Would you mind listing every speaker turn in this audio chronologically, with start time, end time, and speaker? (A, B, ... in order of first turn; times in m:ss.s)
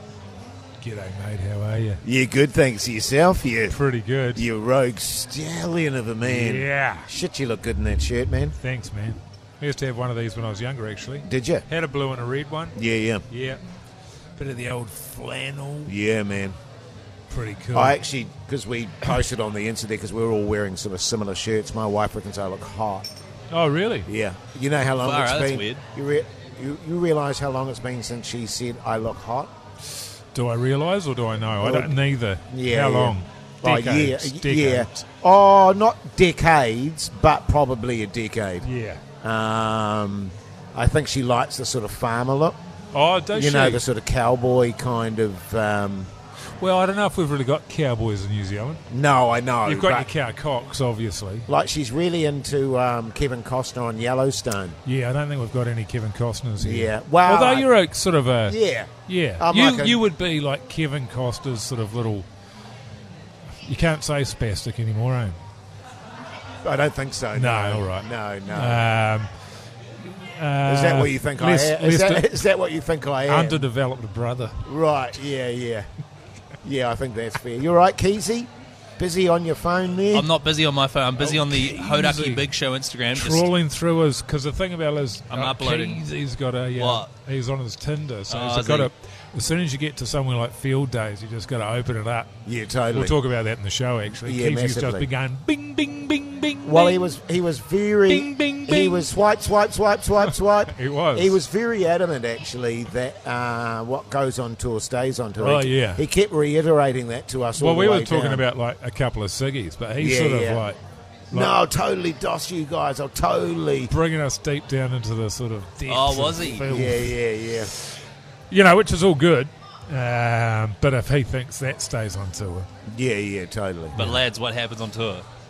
0:00.8-0:02.0 A
0:02.0-0:03.8 B
0:03.7-0:04.4 A
0:04.3-0:08.6 B
0:06.2-0:07.1 A
0:08.6-0:12.7 A
0:11.2-0:11.6 B
0:12.7-0:13.2 B
0:13.3-0:13.6 A
0:14.4-0:15.9 A
0:15.8-0:16.6 B
0:17.3-0:18.0 A
0:17.7-0:23.1 B
0:23.5-0:24.1 A
0:24.1-0:29.5 B
0:25.0-0:25.8 C
0:30.3-0:35.0 A
0:31.6-0:32.0 B
0:32.5-0:38.7 B
0:38.6-0:39.0 A
0:39.2-0:42.6 B
0:42.9-0:43.8 A
0:43.3-0:46.1 B
0:46.6-0:48.8 A
0:48.9-0:50.1 B
0:49.6-0:51.4 A
0:51.5-0:54.8 B
0:54.8-1:02.3 A
0:56.6-0:57.7 B
0:58.4-1:00.0 B
1:03.6-1:05.4 A
1:06.6-1:08.8 B
1:07.3-1:09.3 A
1:10.0-1:12.3 A
1:10.6-1:13.6 B
1:13.3-1:14.6 A
1:14.6-1:15.9 B
1:16.6-1:20.3 B
1:20.1-1:23.5 C
1:21.2-1:22.5 A
1:23.1-1:32.3 A
1:25.3-1:26.0 C
1:26.7-1:27.1 C
1:28.3-1:28.9 C
1:32.4-1:33.1 B
1:32.9-1:37.2 A
1:34.1-1:35.1 B
1:36.6-1:48.4 B
1:38.1-1:39.1 A
1:40.2-1:41.4 A
1:45.4-1:46.0 A
1:47.6-1:50.8 A
1:50.0-1:50.7 B
1:51.3-1:51.6 A
1:51.3-1:53.9 B
1:53.9-1:57.2 A
1:55.9-1:56.7 C
1:56.6-1:57.7 B
1:58.5-2:02.7 A
2:02.9-2:04.0 B
2:03.9-2:04.2 A
2:04.0-2:05.2 C